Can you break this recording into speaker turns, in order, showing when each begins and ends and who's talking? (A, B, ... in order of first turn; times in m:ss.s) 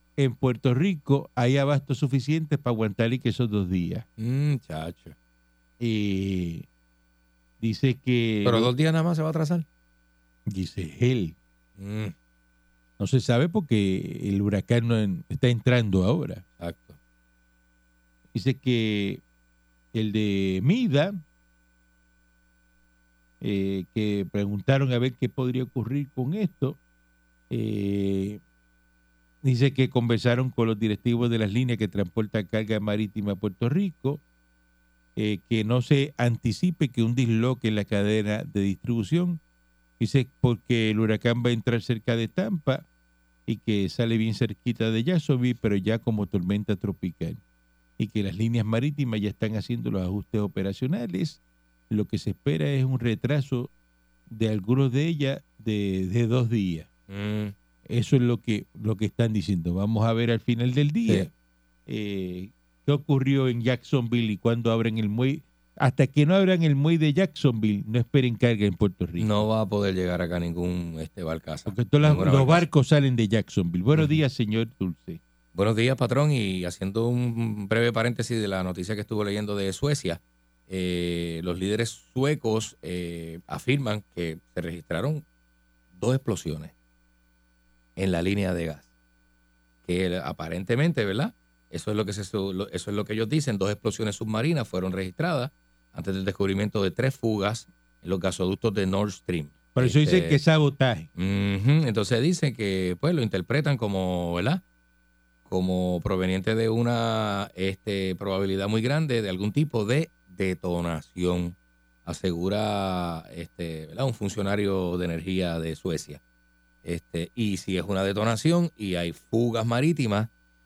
0:00.2-0:04.1 A
0:04.2-0:05.2 B
0:05.8-0:06.7 A
0:07.6-0:08.7 A
0:08.4-0:09.6 B
0:10.5-0:11.4 A
0:11.8-0:12.1 B
0:13.0-0:16.4 A
0:16.6-0:17.0 B
0:18.3-0:19.2 A
0:19.9-0:21.2 A
0:23.4-0:26.8 A
0:27.5-0:28.4 A
0:29.4-0:34.2 A
0:35.2-0:39.4 A
0:40.0-0:42.9 A
0:43.5-0:47.4 A
0:48.0-0:53.7 A
0:54.3-0:56.9 A
0:57.1-0:57.5 B
0:57.9-1:01.3 A
1:01.9-1:09.5 A
1:09.2-1:12.7 B
1:11.7-1:15.2 A
1:15.6-1:25.2 B
1:26.0-1:26.7 B
1:28.0-1:28.8 B
1:29.8-1:40.4 B
1:39.8-1:41.1 A
1:41.2-1:44.6 B
1:45.5-1:56.2 B
1:56.8-2:00.3 B